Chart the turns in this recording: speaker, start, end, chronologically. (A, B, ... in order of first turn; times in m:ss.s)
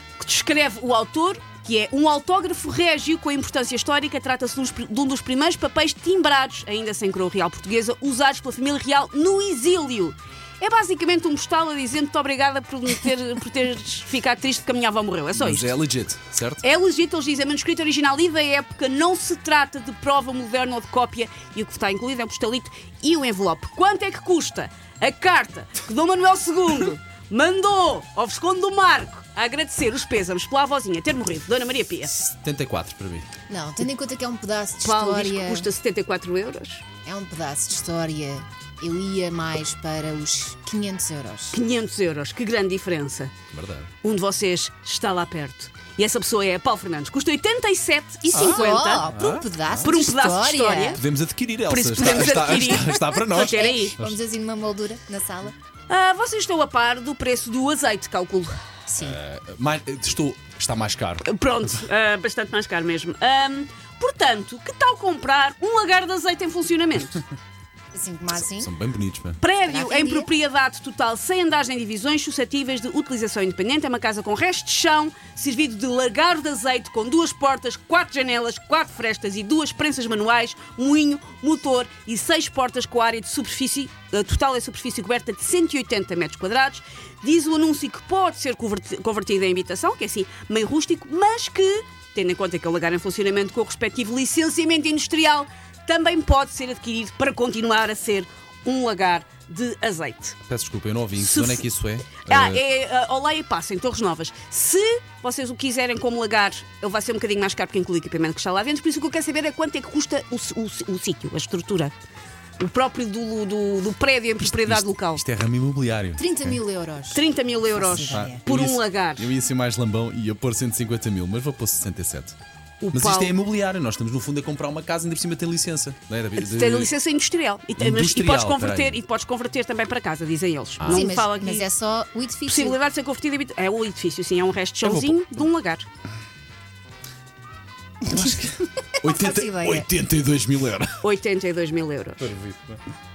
0:00.2-0:15.7 A
0:15.4-0:16.6 B
0:16.6-0:32.1 A
0:32.1-0:33.3 B
0:33.5-0:35.7 C
0:34.8-0:36.8 A
0:37.0-0:41.6 C
0:41.5-0:43.3 A
0:43.5-0:43.9 B
0:44.0-0:49.0 A
0:48.3-0:49.9 B
0:48.3-0:51.0 C
0:49.8-0:51.0 A
0:51.0-0:54.1 B
0:51.7-0:54.0 A
0:53.3-0:55.5 C
0:55.9-0:58.6 A
0:58.9-0:59.2 C
0:59.0-1:01.2 B
1:01.2-1:07.2 A
1:07.9-1:08.7 C
1:08.5-1:09.4 B
1:09.4-1:40.4 A
1:09.6-1:10.3 C
1:40.4-1:42.6 B
1:41.2-1:41.7 A
1:42.2-1:51.9 A
1:52.6-1:55.2 A
1:54.4-1:56.6 B
1:56.2-1:58.4 C
1:57.1-1:59.3 A
1:58.1-2:02.3 B
2:02.8-2:03.3 A
2:02.9-2:06.9 B
2:06.4-2:11.7 A
2:07.8-2:09.0 B
2:10.8-2:11.1 B
2:10.8-2:12.8 C
2:12.5-2:15.9 A
2:14.8-2:15.2 B
2:18.1-2:21.0 B
2:18.1-2:19.9 C
2:21.0-2:22.3 A
2:22.2-2:22.8 B